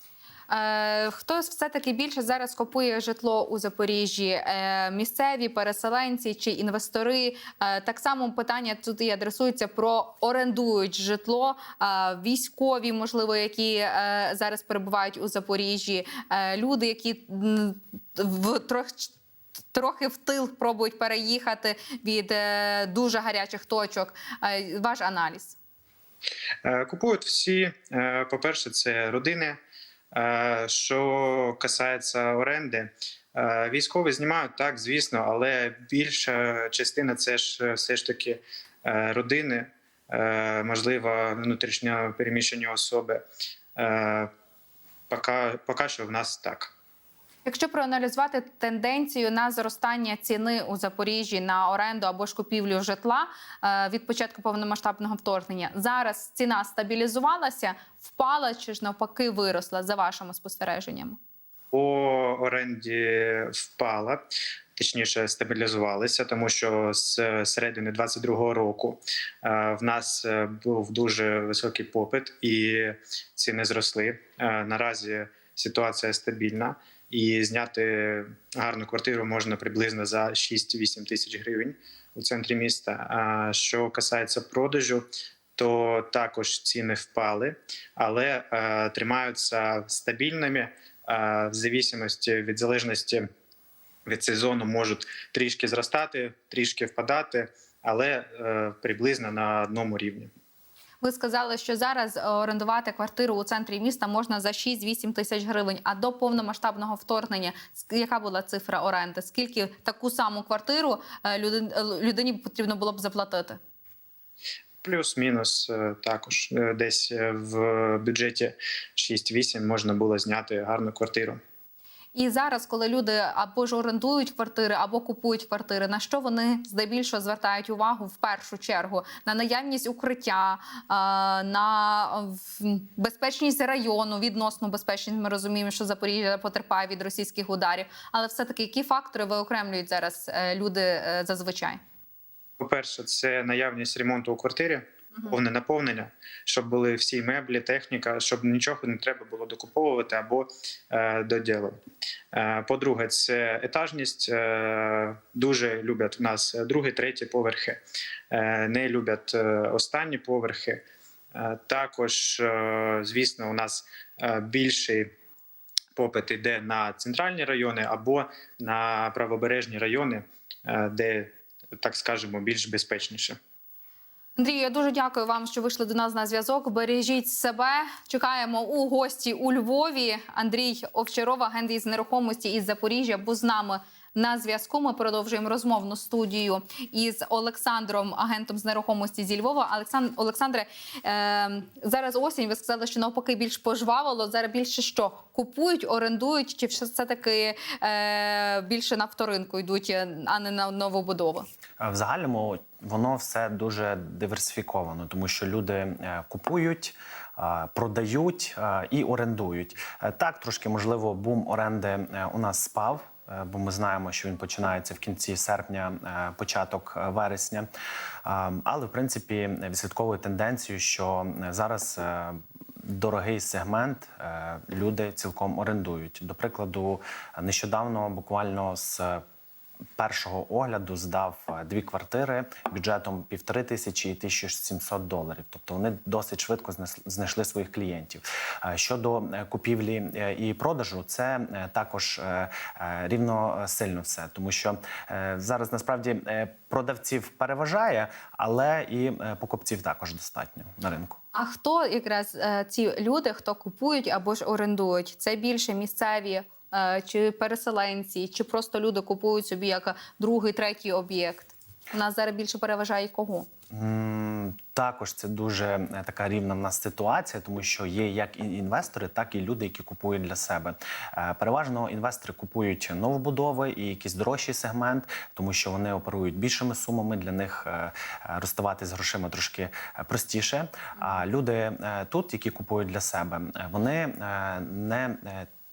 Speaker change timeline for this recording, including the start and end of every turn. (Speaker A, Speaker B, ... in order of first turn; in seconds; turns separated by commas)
Speaker A: 0.5-19.1, Speaker A: 19.7-25.6, Speaker B: 26.6-29.6, Speaker B: 30.1-43.2, Speaker B: 43.8-44.3, Speaker B: 45.1-46.7, Speaker A: 47.4-61.2, Speaker B: 61.7-64.2, Speaker B: 64.8-85.0, Speaker B: 85.5-93.3, Speaker B: 94.0-100.3, Speaker A: 101.0-113.6, Speaker B: 114.8-121.4, Speaker A: 122.1-141.8, Speaker B: 142.6-151.8, Speaker B: 152.3-157.8, Speaker B: 158.3-160.8, Speaker B: 161.3-165.1, Speaker B: 165.9-173.4, Speaker A: 174.4-201.5, Speaker C: 201.8-217.7, Speaker C: 218.2-229.2, Speaker C: 230.0-251.2, Speaker A: 251.3-263.5, Speaker C: 263.7-285.5